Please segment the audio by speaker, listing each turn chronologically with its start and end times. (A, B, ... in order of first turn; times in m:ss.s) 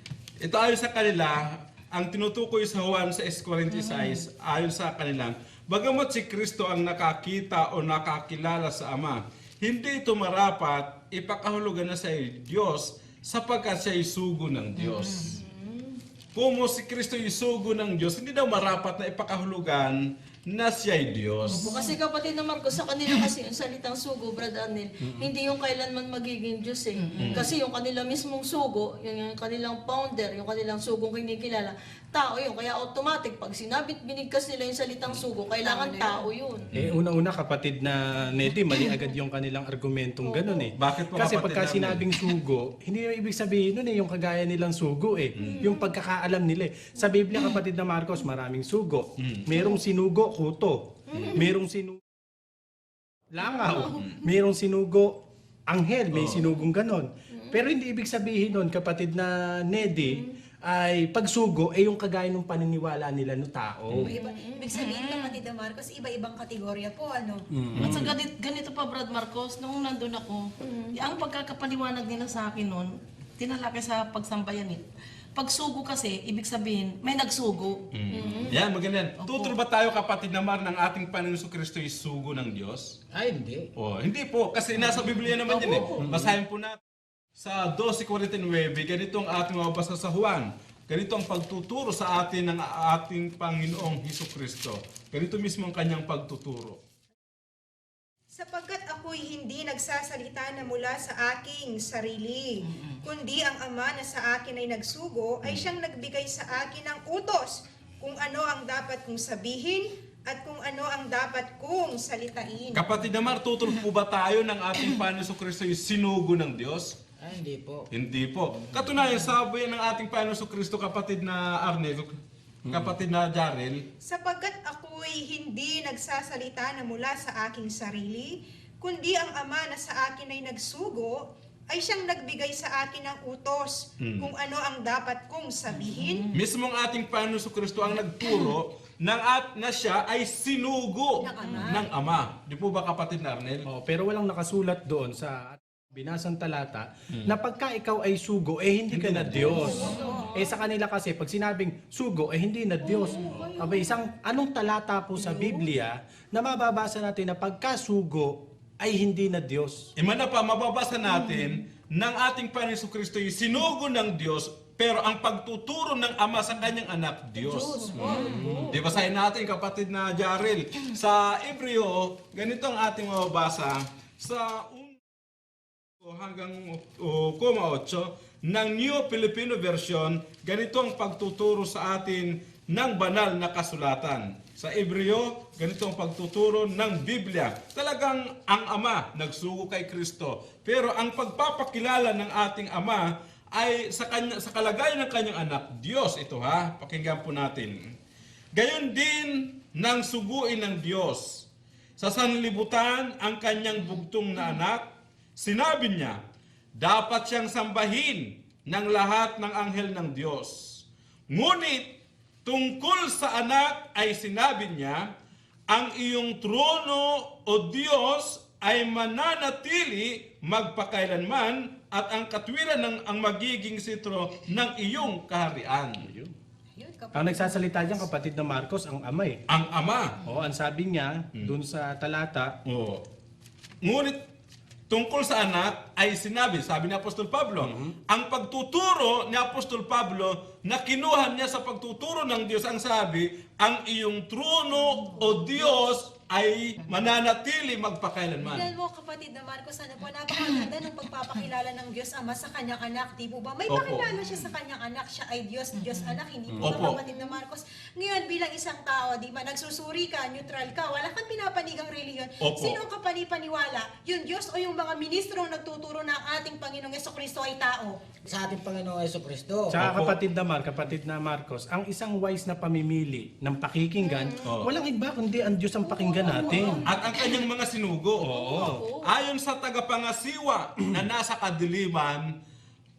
0:00.4-0:15.3 A
0:14.8-0:15.3 B
0:15.3-0:16.0 C
0:16.3-0:21.7 A
0:21.5-0:36.7 C
0:21.5-0:22.0 B
0:27.0-0:27.4 B
0:27.2-0:27.5 A
0:35.6-0:36.3 D
0:36.7-0:37.0 A
0:36.7-0:52.0 E
0:40.2-0:40.7 C
0:40.7-0:42.0 A
0:45.4-0:45.6 A
0:45.4-0:45.8 C
0:49.2-0:49.6 A
0:51.1-0:51.4 C
0:53.3-0:55.1 E
0:53.4-0:54.0 C
0:54.0-0:54.2 A
0:55.7-1:04.1 E
0:56.1-0:56.4 A
0:57.3-0:57.6 C
1:00.0-1:00.3 C
1:04.0-1:07.4 D
1:04.1-1:04.7 C
1:04.7-1:05.4 B
1:07.5-1:08.1 E
1:07.8-1:08.1 A
1:07.8-1:14.8 B
1:10.6-1:10.9 C
1:15.3-1:17.8 B
1:17.9-1:22.9 A
1:18.1-1:18.6 C
1:19.2-1:19.5 B
1:23.1-1:23.7 F
1:23.8-1:26.8 A
1:26.0-1:26.3 F
1:27.4-1:36.8 A
1:38.3-1:52.9 D
1:52.7-1:57.0 A
1:57.2-1:57.9 F
1:57.9-2:02.2 A
2:02.7-2:03.8 A
2:04.0-2:16.3 D
2:14.0-2:14.3 A
2:16.3-2:23.6 A
2:21.2-2:21.9 D
2:23.7-2:39.9 E
2:28.9-2:29.9 A
2:29.5-2:30.5 C
2:32.8-2:33.9 C
2:35.2-2:35.6 C
2:40.0-2:55.0 A
2:47.7-2:48.8 C
2:47.8-2:48.1 D
2:56.0-3:17.8 A
3:18.5-3:21.5 A
3:22.0-3:24.8 A
3:25.4-3:26.2 A
3:26.8-3:35.0 A
3:35.7-3:46.1 A
3:46.0-3:46.3 E
3:46.8-3:48.1 D
3:47.1-3:49.4 E
3:49.5-3:50.2 A
3:50.2-3:52.5 E
3:52.6-3:53.0 A
3:53.8-3:54.2 A
3:54.9-4:08.7 A
3:57.6-3:57.9 E
4:08.4-4:28.0 D
4:13.7-4:14.2 A
4:16.6-4:17.0 A
4:22.4-4:22.8 A
4:28.2-4:29.7 F
4:29.7-4:36.8 E
4:29.7-4:30.2 A
4:34.0-4:34.4 C
4:34.4-4:34.7 A
4:35.8-4:37.4 C
4:36.8-4:38.4 A
4:38.2-4:38.8 E
4:38.2-4:39.1 C
4:39.0-4:42.3 A